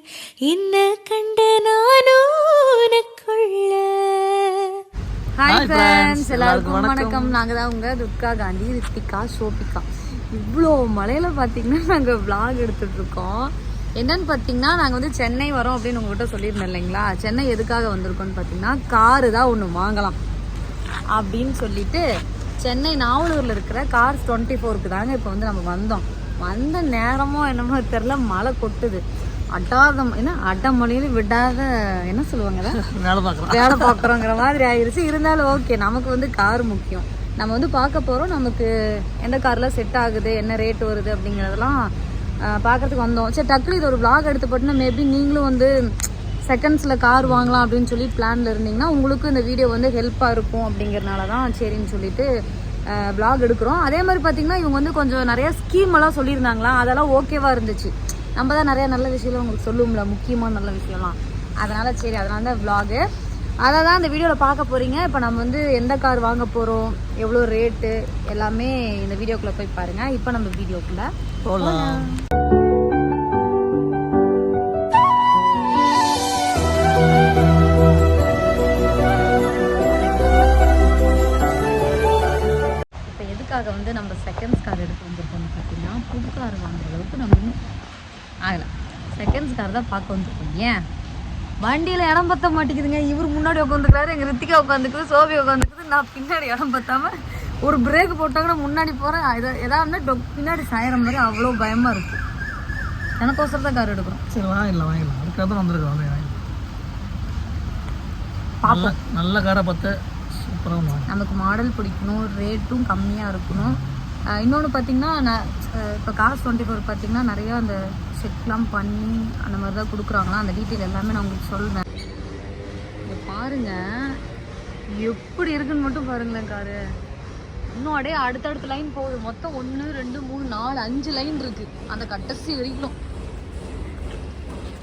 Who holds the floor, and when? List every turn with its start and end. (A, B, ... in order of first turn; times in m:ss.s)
0:00.5-0:04.8 A
0:05.4-0:20.2 B
0:05.5-0:07.4 C
0:21.1-0:22.0 B
0:22.6-0:29.0 B
0:29.5-0:32.8 B
0:32.7-0:34.1 C
0:33.5-0:38.7 B
0:39.2-0:41.9 B
0:42.5-0:45.7 B
0:46.5-0:52.3 B
0:47.2-0:47.6 C
0:52.9-1:03.0 B
1:03.6-1:12.2 B
1:11.4-1:12.1 C
1:19.7-1:20.4 B
1:23.0-1:27.6 B
1:28.4-1:30.8 B
1:31.6-1:42.2 B
1:43.2-1:44.2 B
1:44.3-1:46.4 C
1:48.6-1:49.0 B
1:48.6-1:51.1 C
1:51.1-1:53.8 B
1:53.5-1:53.9 C
1:54.4-2:01.8 B
2:03.0-2:03.8 B
2:04.9-2:06.8 B
2:07.8-2:12.9 B